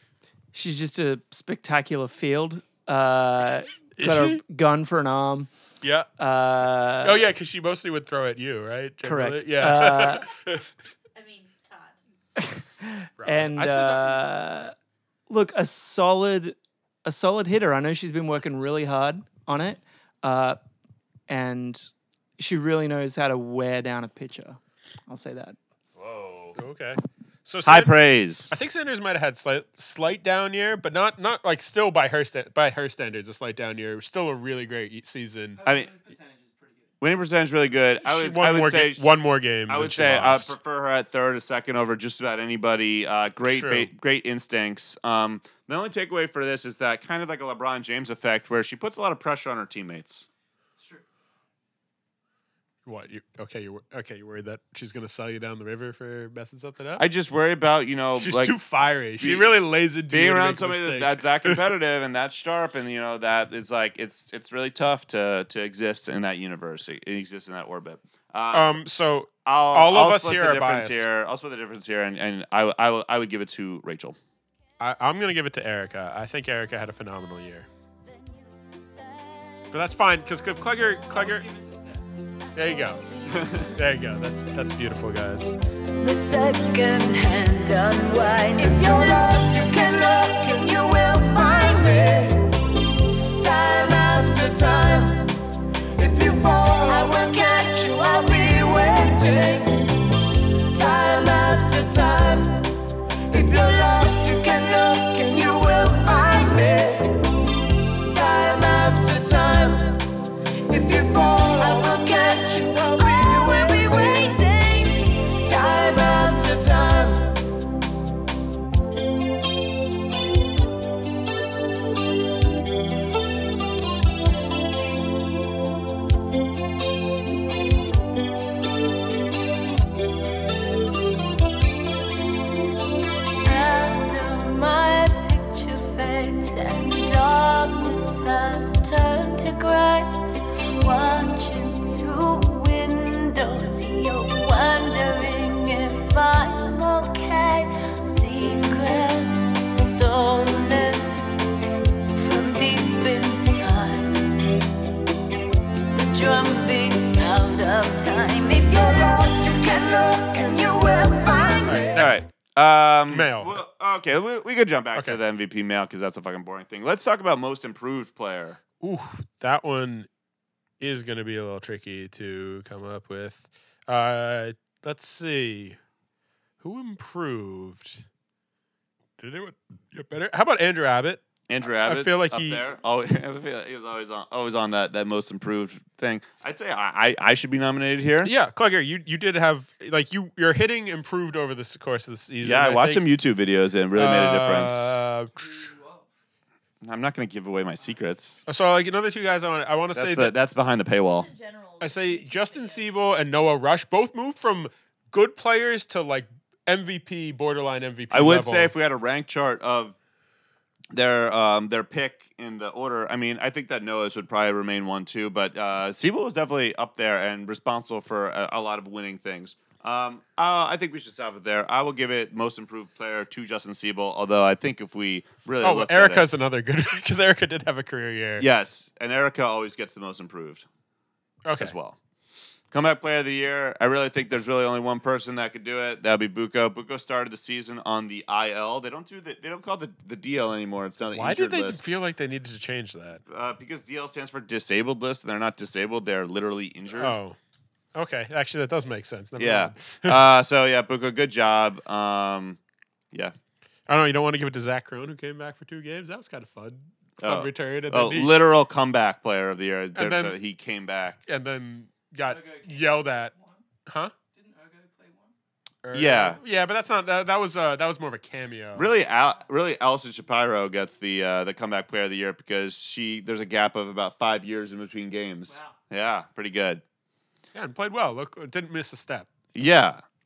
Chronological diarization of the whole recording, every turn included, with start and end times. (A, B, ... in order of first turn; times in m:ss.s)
0:00.5-0:05.5 A
0:04.0-0:04.4 B
0:05.8-0:06.1 B
0:06.2-0:07.2 A
0:07.0-0:10.7 B
0:09.0-0:10.3 A
0:11.2-0:12.0 C
0:12.4-0:14.7 A
0:13.2-0:14.2 B
0:15.3-0:20.6 A
0:21.3-0:25.6 A
0:26.0-0:26.6 D
0:26.6-0:27.9 B
0:27.6-0:28.5 D
0:28.5-0:35.6 B
0:35.6-0:36.9 E
0:35.6-0:35.9 D
0:37.0-0:39.1 D
0:38.0-0:40.6 B
0:39.7-0:50.3 D
0:43.5-0:43.9 B
0:50.8-0:51.0 E
0:52.9-0:57.0 B
0:57.0-0:58.6 D
0:58.2-1:01.7 B
0:59.2-1:08.8 D
1:08.5-1:11.0 B
1:09.4-1:14.2 D
1:14.8-1:17.7 B
1:18.0-1:19.8 C
1:19.7-1:21.5 B
1:21.1-1:22.1 E
1:22.6-1:23.0 B
1:22.6-1:23.8 C
1:23.3-1:23.6 D
1:23.7-1:25.6 B
1:26.0-1:32.6 F
1:33.4-1:35.4 F
1:36.0-1:39.9 F
1:40.7-1:42.7 F
1:43.3-1:47.3 F
1:48.0-1:50.0 F
1:50.7-1:57.4 F
2:13.4-2:20.1 F
2:20.8-2:31.2 F
2:32.1-2:34.3 F
2:35.9-2:42.1 F
2:41.6-2:42.2 B
2:42.0-2:48.6 D
2:43.1-2:43.6 B
2:48.8-2:50.1 B
2:50.8-2:55.8 B
2:56.6-2:58.0 B
2:59.2-3:01.2 B
3:01.5-3:08.3 D
3:01.8-3:02.6 B
3:08.2-3:13.0 B
3:12.4-3:15.0 D
3:14.0-3:15.7 B
3:15.3-3:16.1 E
3:16.8-3:18.4 D
3:18.5-3:20.3 B
3:19.9-3:21.3 D
3:21.0-3:22.9 C
3:21.8-3:28.7 B
3:28.1-3:30.0 D
3:30.9-3:46.3 D
3:45.6-3:48.5 B
3:48.4-3:50.7 D
3:51.4-3:51.8 B
3:51.6-3:52.0 D
3:52.7-4:01.8 D
4:01.1-4:03.2 B
4:03.3-4:07.2 D
4:07.0-4:07.4 B
4:08.0-4:10.2 B
4:09.4-4:12.6 D
4:13.9-4:18.4 B
4:17.2-4:21.2 D
4:20.0-4:20.4 B
4:21.3-4:23.3 B
4:22.2-4:23.6 E
4:23.9-4:24.1 B
4:24.3-4:25.3 E
4:25.8-4:28.9 B
4:25.9-4:26.4 D
4:28.8-4:36.8 D
4:35.5-4:35.8 E
4:37.5-4:39.3 B
4:39.6-4:40.0 D